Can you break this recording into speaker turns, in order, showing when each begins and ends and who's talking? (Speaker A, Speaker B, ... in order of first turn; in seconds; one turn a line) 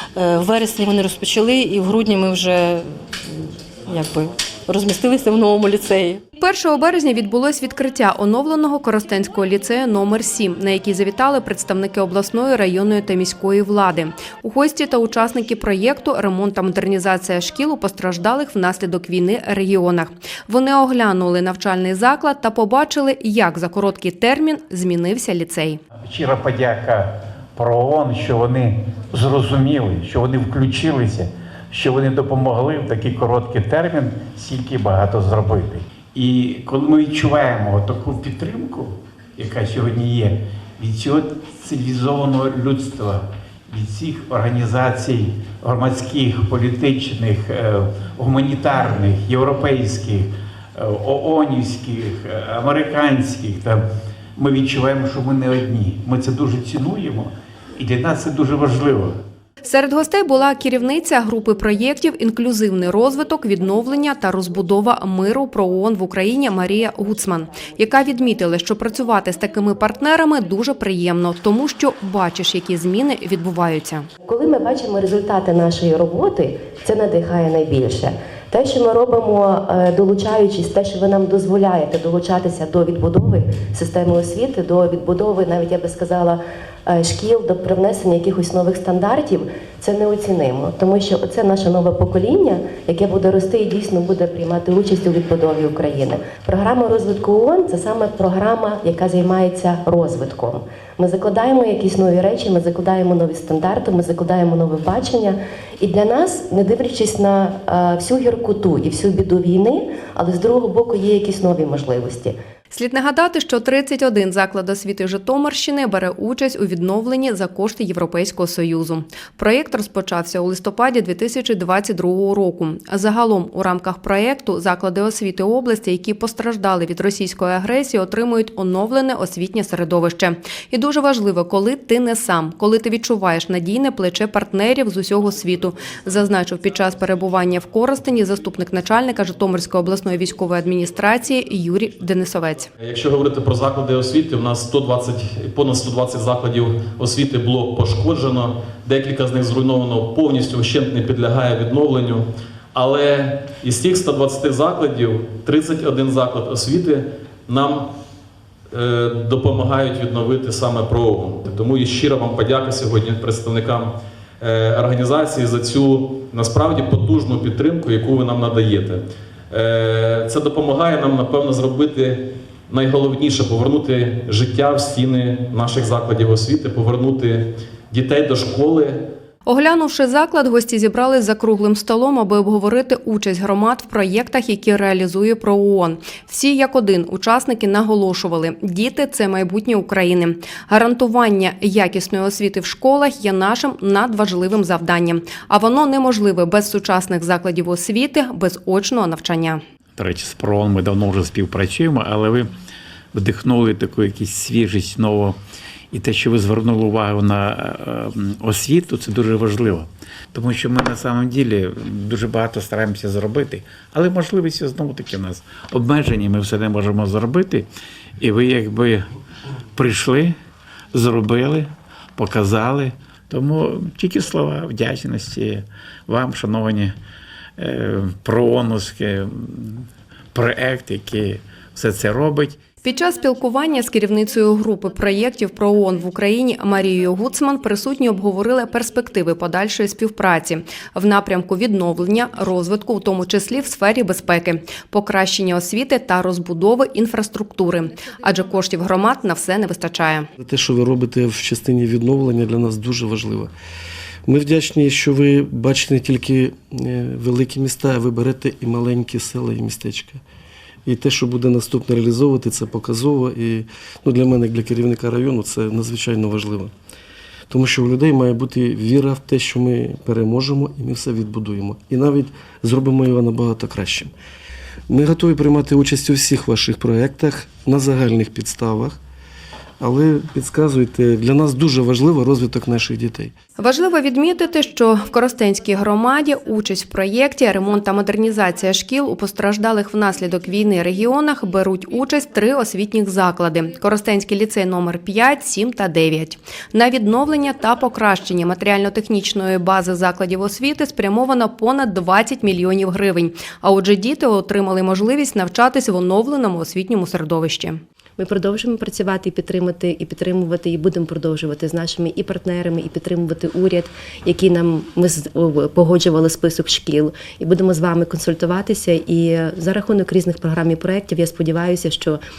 Speaker A: 0.1-6.2
Speaker B: 6.4-25.8
Speaker C: 26.0-53.8
Speaker C: 54.4-59.1
Speaker B: 59.6-74.0
Speaker D: 74.2-112.3
Speaker B: 112.7-142.7
Speaker E: 142.8-152.2
Speaker E: 152.7-157.8
Speaker E: 158.7-178.9
Speaker B: 179.5-199.6
Speaker C: 200.0-202.5
Speaker C: 203.1-205.4
Speaker C: 205.9-217.7
Speaker C: 218.2-219.0
Speaker C: 219.7-220.3
Speaker C: 220.9-226.9
Speaker C: 227.6-232.6
Speaker B: 232.8-250.3
Speaker F: 250.4-253.5
Speaker F: 254.2-260.2
Speaker F: 260.9-266.7
Speaker F: 267.5-274.1
Speaker F: 274.9-279.0
Speaker F: 279.8-283.3
Speaker B: 283.6-307.8
Speaker D: 308.2-322.2